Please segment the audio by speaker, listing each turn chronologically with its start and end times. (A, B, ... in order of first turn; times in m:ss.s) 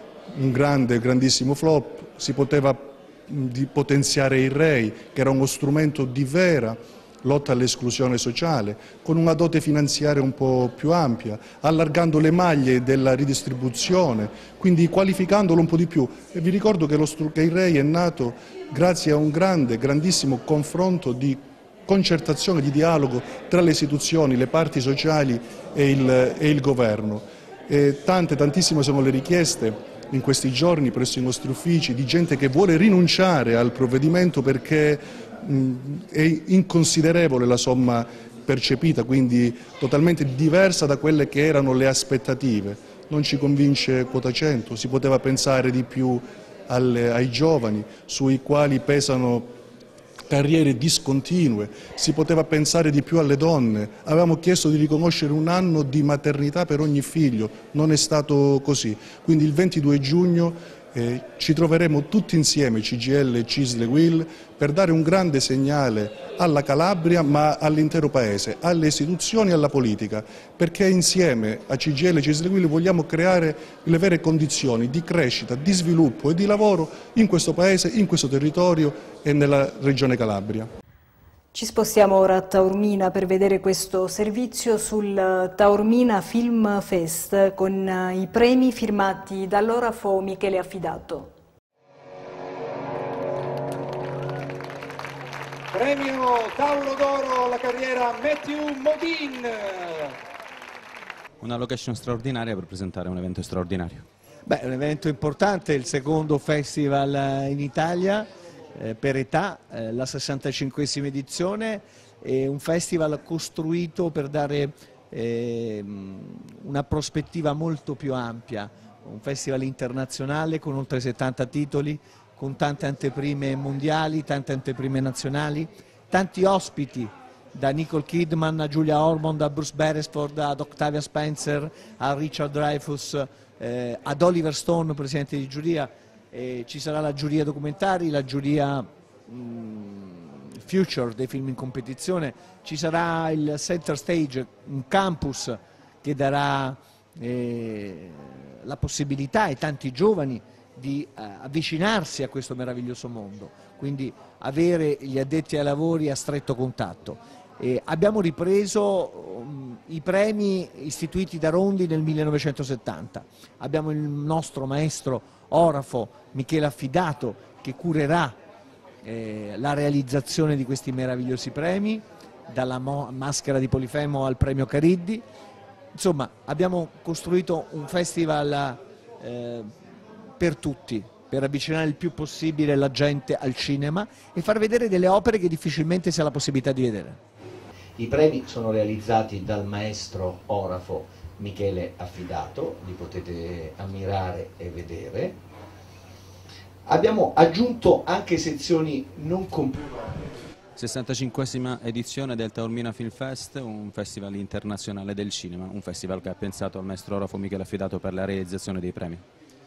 0:00.3-0:49.5 A
0:50.3-1:20.7 A
1:21.5-1:31.3 B
1:35.7-1:40.1 C
1:41.4-1:44.1 D
1:44.4-2:48.4 E
2:49.0-2:55.2 E
2:55.9-2:59.8 E
3:00.4-3:07.2 E
3:08.0-3:15.4 F
3:16.9-3:20.2 E
3:20.8-3:29.2 D